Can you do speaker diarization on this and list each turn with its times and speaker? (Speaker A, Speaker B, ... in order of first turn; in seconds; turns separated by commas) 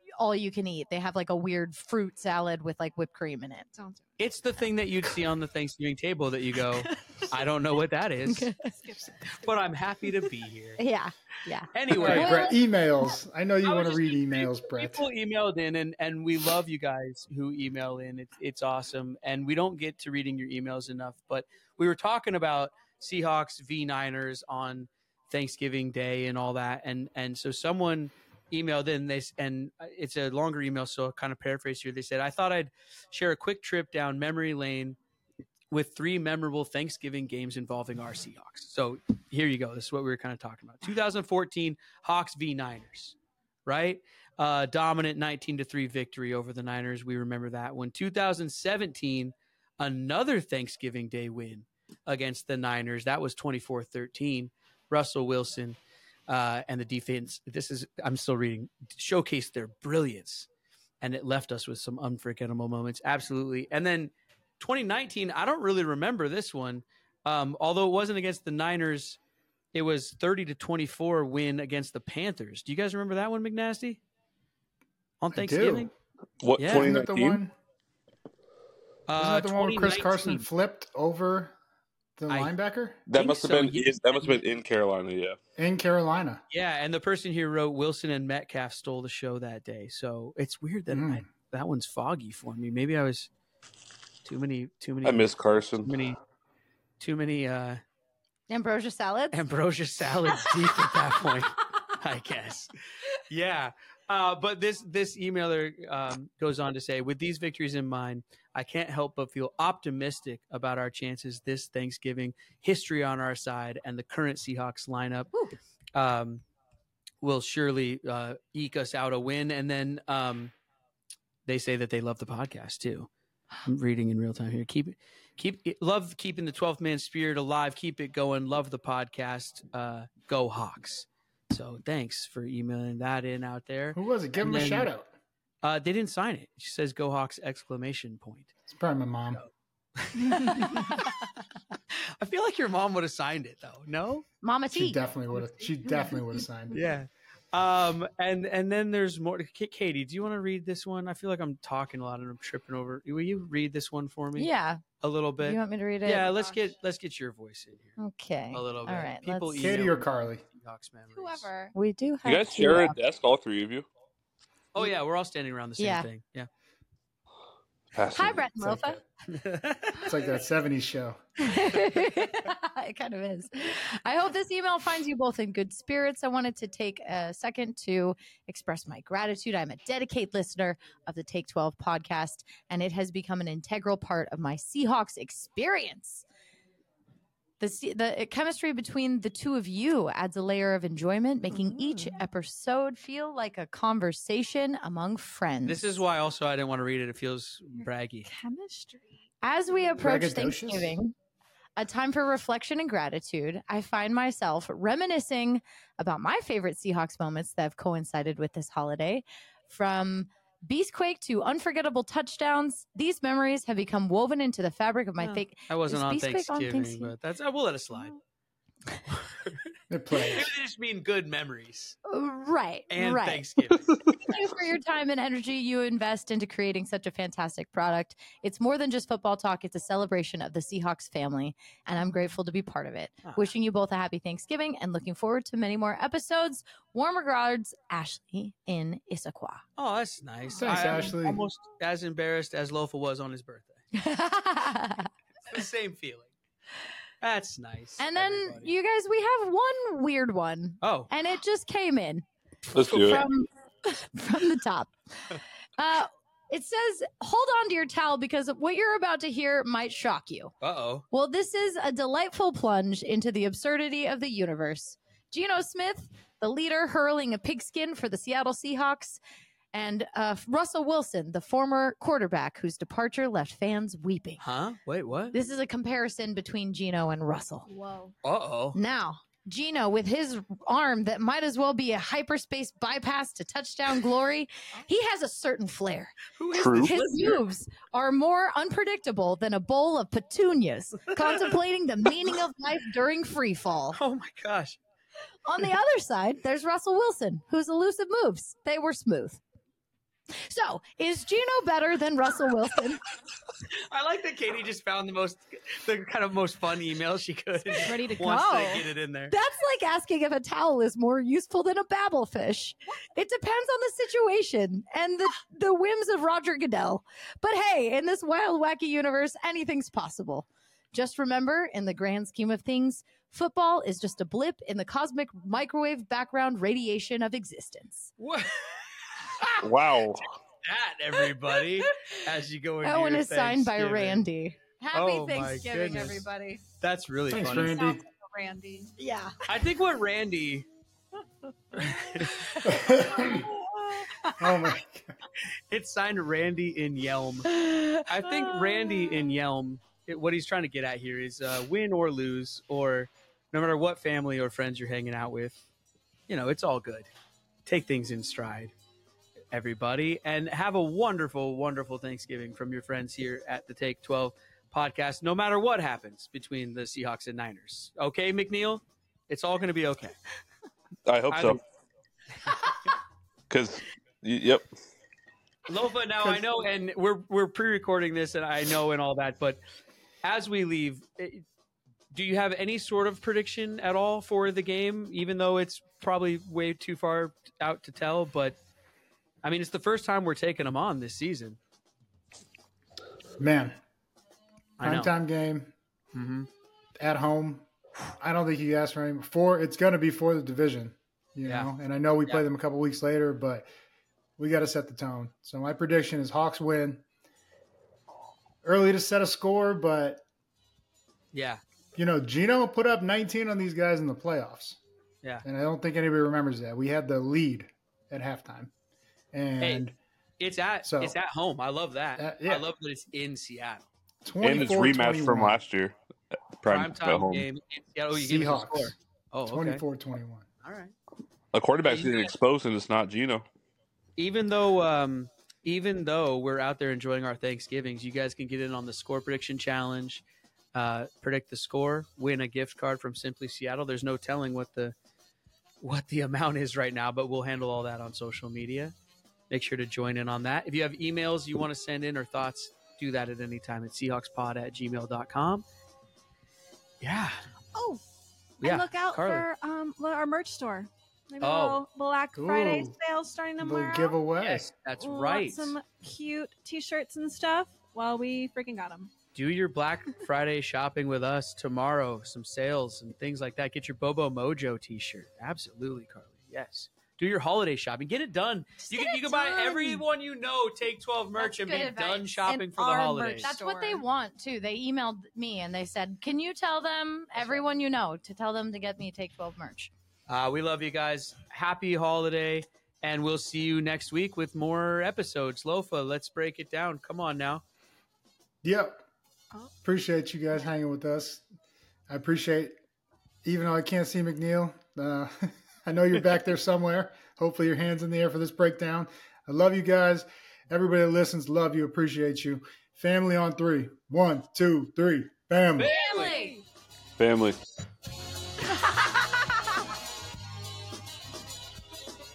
Speaker A: 0.2-3.7, Speaker B: 3.7-4.2, Speaker C: 4.2-8.5, Speaker B: 6.8-7.3, Speaker A: 8.3-8.6, Speaker B: 8.6-9.6, Speaker C: 9.3-10.8, Speaker A: 10.8-12.6, Speaker C: 11.7-12.5, Speaker D: 11.9-15.1, Speaker C: 13.6-35.0, Speaker C: 35.7-60.5, Speaker C: 61.0-69.2, Speaker C: 69.7-74.0, Speaker C: 75.2-75.9, Speaker D: 75.3-75.9, Speaker E: 76.4-77.4, Speaker C: 76.6-76.9, Speaker D: 76.6-77.5, Speaker C: 79.1-80.5, Speaker D: 79.2-81.5, Speaker D: 82.2-83.0, Speaker C: 82.3-82.5, Speaker E: 83.1-85.4, Speaker C: 83.1-84.4, Speaker D: 85.6-86.4, Speaker C: 86.5-93.3, Speaker D: 90.9-91.2, Speaker C: 94.2-96.2, Speaker E: 95.0-96.0, Speaker C: 97.0-97.8, Speaker A: 98.5-99.4, Speaker C: 99.3-115.3, Speaker C: 116.0-116.4, Speaker C: 117.2-120.5, Speaker C: 121.5-123.1, Speaker C: 123.6-134.9, Speaker D: 133.9-135.1, Speaker C: 135.6-138.5, Speaker D: 138.7-139.4, Speaker C: 139.3-141.1, Speaker C: 142.2-144.3, Speaker A: 144.4-145.0, Speaker D: 144.7-146.8, Speaker C: 146.7-158.0, Speaker A: 154.3-154.8, Speaker A: 155.4-156.3, Speaker B: 156.3-156.6, Speaker A: 158.0-159.7, Speaker C: 158.5-161.5, Speaker D: 159.6-160.4, Speaker B: 161.2-161.8, Speaker A: 161.8-163.0, Speaker E: 162.2-163.9, Speaker C: 164.7-166.5, Speaker A: 165.8-166.1, Speaker E: 167.9-168.5, Speaker A: 168.1-169.0, Speaker D: 168.6-169.1, Speaker C: 169.3-170.2, Speaker D: 170.0-171.2, Speaker A: 171.4-186.2, Speaker A: 187.6-196.0, Speaker B: 191.5-192.3, Speaker C: 195.7-198.3, Speaker B: 198.2-199.2, Speaker A: 199.4-201.1, Speaker D: 200.0-201.0, Speaker A: 201.8-217.1, Speaker C: 215.2-218.2, Speaker C: 219.1-222.0, Speaker D: 219.9-220.5, Speaker A: 222.1-223.4, Speaker C: 222.9-224.0, Speaker A: 224.1-239.6, Speaker C: 239.8-243.8, Speaker D: 240.6-241.4, Speaker A: 243.9-245.1, Speaker C: 245.5-246.3, Speaker C: 247.2-248.7, Speaker A: 248.0-252.3, Speaker C: 250.8-251.1, Speaker E: 252.7-253.3, Speaker A: 252.9-260.5, Speaker C: 260.6-261.1, Speaker A: 261.1-269.2, Speaker A: 269.7-274.4, Speaker C: 274.4-275.4, Speaker A: 275.3-277.7, Speaker B: 277.7-278.1, Speaker C: 278.2-278.8, Speaker A: 278.7-294.0, Speaker C: 286.4-287.4, Speaker E: 286.5-287.3, Speaker C: 293.9-294.8, Speaker A: 295.5-299.4, Speaker A: 300.4-303.0, Speaker C: 303.7-309.3, Speaker B: 307.7-308.9, Speaker A: 309.3-328.1, Speaker C: 328.2-329.5, Speaker E: 329.6-330.3, Speaker C: 330.6-334.3, Speaker A: 332.8-335.6, Speaker C: 334.9-336.2, Speaker B: 335.0-336.6, Speaker C: 336.8-337.9, Speaker D: 337.3-338.0, Speaker B: 337.6-338.9, Speaker A: 339.0-339.4, Speaker C: 339.5-340.7, Speaker B: 341.7-342.1, Speaker C: 341.7-342.7, Speaker D: 342.6-343.5, Speaker B: 343.2-344.2, Speaker D: 344.4-345.2, Speaker C: 345.7-347.5, Speaker A: 347.5-348.2, Speaker C: 348.1-355.6, Speaker C: 356.3-357.1, Speaker C: 357.7-358.7, Speaker C: 359.5-370.1, Speaker E: 371.1-371.6, Speaker C: 371.3-371.6, Speaker C: 372.5-372.7, Speaker E: 373.5-374.7, Speaker C: 375.7-379.6, Speaker C: 380.2-381.4, Speaker C: 382.1-388.6, Speaker C: 389.4-391.6, Speaker D: 393.4-393.8, Speaker C: 394.8-395.1, Speaker D: 394.8-395.7, Speaker C: 396.1-396.5, Speaker D: 397.0-403.7, Speaker C: 401.4-401.7, Speaker D: 404.4-407.1, Speaker D: 408.6-410.2, Speaker C: 411.3-411.6, Speaker D: 412.0-414.8, Speaker D: 415.4-418.7, Speaker D: 419.3-420.0, Speaker C: 419.6-419.9, Speaker C: 420.4-423.9, Speaker D: 420.8-421.2, Speaker D: 422.2-422.7, Speaker D: 424.2-425.6, Speaker E: 424.4-426.0, Speaker E: 426.6-427.5, Speaker C: 426.6-429.8, Speaker D: 428.1-428.9, Speaker D: 429.5-430.5, Speaker C: 430.6-430.9, Speaker E: 431.5-433.5, Speaker C: 431.8-432.3, Speaker C: 434.2-440.2, Speaker C: 440.8-444.9, Speaker C: 445.8-448.9, Speaker C: 449.5-455.6, Speaker C: 457.0-457.4, Speaker B: 457.7-458.0, Speaker C: 458.6-459.5, Speaker B: 458.6-464.2, Speaker C: 461.4-461.8, Speaker D: 462.4-463.0, Speaker D: 463.6-464.7, Speaker C: 464.4-465.8, Speaker B: 465.0-469.1, Speaker C: 469.4-483.6, Speaker B: 478.9-480.0, Speaker A: 481.4-482.4, Speaker B: 482.5-484.0, Speaker A: 483.4-489.9, Speaker C: 487.4-487.6, Speaker C: 490.3-497.6, Speaker D: 498.6-499.1, Speaker D: 499.8-501.4, Speaker D: 502.1-502.7, Speaker D: 503.4-515.9, Speaker C: 515.8-516.5, Speaker A: 515.9-516.6, Speaker B: 516.0-516.6, Speaker E: 517.2-517.6